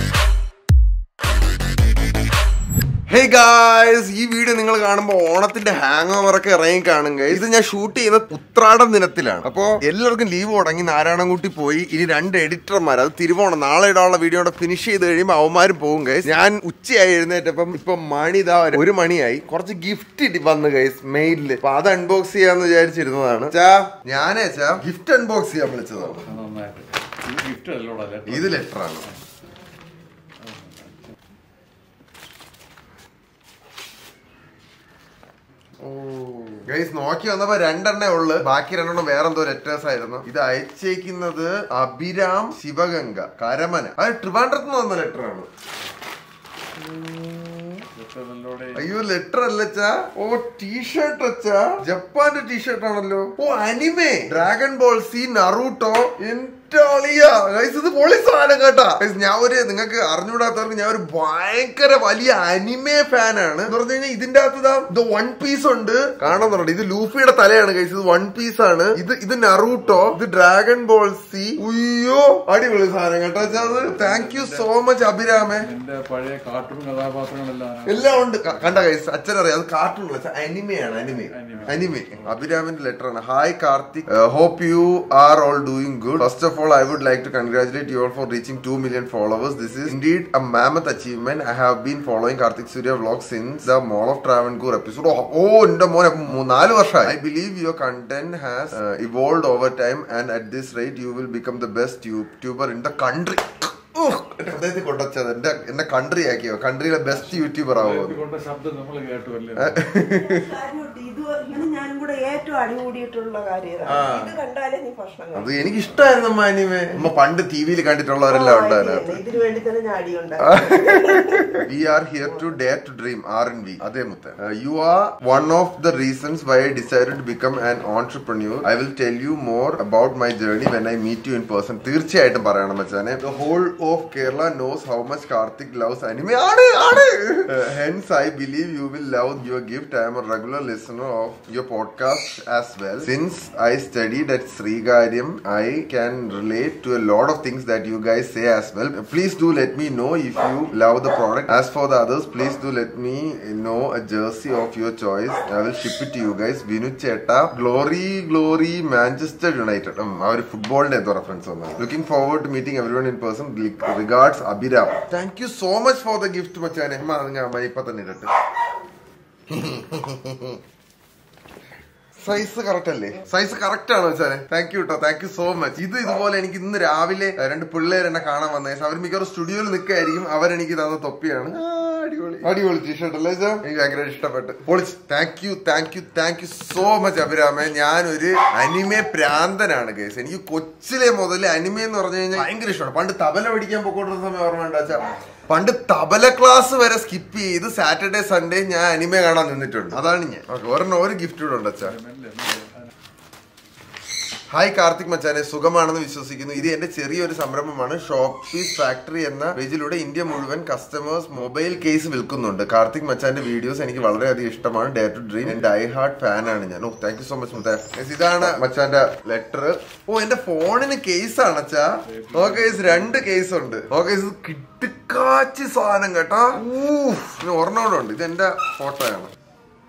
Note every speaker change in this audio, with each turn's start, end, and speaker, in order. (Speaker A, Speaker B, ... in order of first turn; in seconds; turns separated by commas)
Speaker A: 3.1-26.3, Speaker B: 25.9-28.6, Speaker A: 28.3-29.1, Speaker B: 30.4-31.1, Speaker A: 35.9-45.5, Speaker A: 46.8-47.8, Speaker B: 48.0-48.8, Speaker A: 48.8-75.7, Speaker B: 74.0-74.7, Speaker B: 75.5-78.0, Speaker A: 77.8-108.2, Speaker B: 81.3-81.8, Speaker B: 107.1-109.7, Speaker A: 109.6-110.5, Speaker C: 110.3-115.5, Speaker A: 113.9-114.4, Speaker A: 115.3-119.2, Speaker C: 118.3-121.6, Speaker A: 120.5-121.0, Speaker A: 121.6-168.3, Speaker A: 169.5-170.6, Speaker A: 172.2-202.0, Speaker B: 201.9-202.9, Speaker A: 204.5-229.3, Speaker B: 222.1-223.2